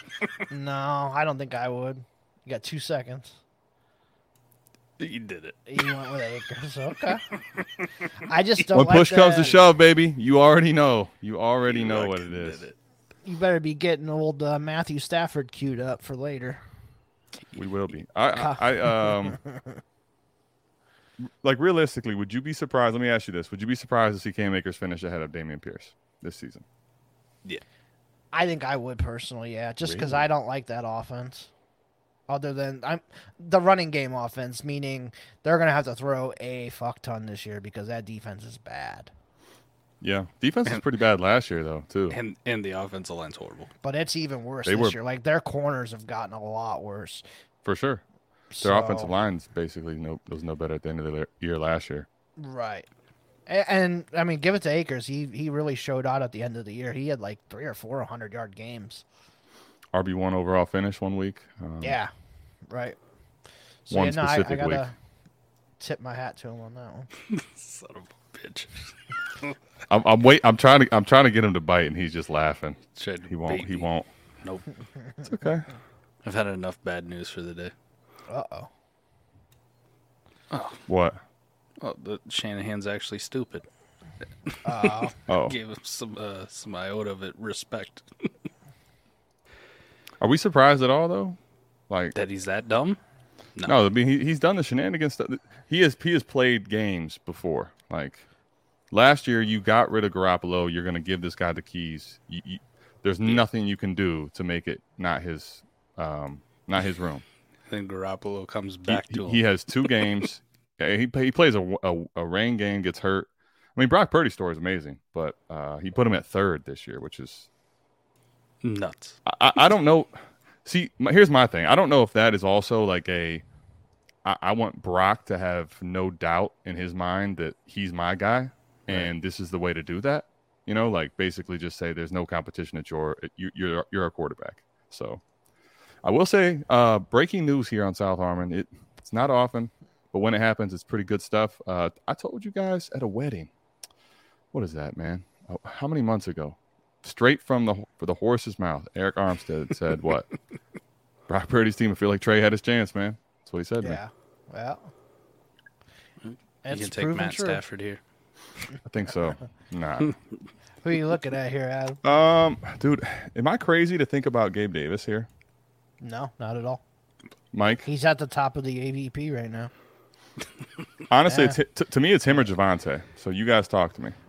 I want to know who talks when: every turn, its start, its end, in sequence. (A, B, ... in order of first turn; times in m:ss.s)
0:00.5-0:03.4 A
0:05.0-0:05.9 B
0:05.7-0:07.2 A
0:07.3-0:07.9 B
0:08.2-0:09.6 A
0:08.7-0:12.6 C
0:11.7-0:12.8 B
0:13.2-0:16.6 A
0:17.5-0:19.4 C
0:18.4-0:19.8 A
0:21.2-0:26.6 C
0:28.3-0:31.5 A
0:29.8-0:30.3 C
0:32.3-0:39.1 A
0:40.0-0:42.2 C
0:42.1-0:43.7 B
0:43.8-0:47.2 A
0:44.7-0:45.0 C
0:47.6-0:48.0 C
0:48.5-0:49.1 A
0:48.6-0:52.1 C
0:52.4-0:52.9 A
0:53.5-0:59.0 A
0:59.9-1:02.0 C
1:01.8-1:02.1 A
1:02.7-1:03.0 A
1:03.9-1:05.0 A
1:03.9-1:04.8 C
1:05.8-1:07.1 A
1:07.2-1:09.6 B
1:09.9-1:14.1 C
1:13.0-1:13.9 B
1:15.3-1:15.7 C
1:16.2-1:17.7 B
1:18.3-1:18.7 A
1:20.5-1:20.8 B
1:20.9-1:21.2 C
1:21.8-1:23.7 B
1:24.5-1:28.5 B
1:24.6-1:25.1 A
1:25.3-1:25.6 C
1:30.2-1:31.4 C
1:31.9-1:32.1 C
1:32.1-1:33.0 B
1:33.7-1:38.2 C
1:38.9-1:47.2 C
1:47.7-1:50.1 B
1:48.9-1:57.5 C
1:58.6-1:59.2 B
1:59.3-2:03.4 C
2:04.2-2:15.2 C
2:16.0-2:23.5 C
2:24.5-2:30.3 C
2:31.3-2:34.0 C
2:33.8-2:34.9 A
2:36.2-2:38.0 B
2:36.6-2:37.6 A
2:38.9-2:40.2 C
2:40.8-2:42.0 A
2:42.0-2:45.3 C
2:46.0-2:46.8 A
2:47.5-2:47.9 C
2:47.8-2:49.7 A
2:51.1-2:54.2 C
2:51.3-2:51.6 A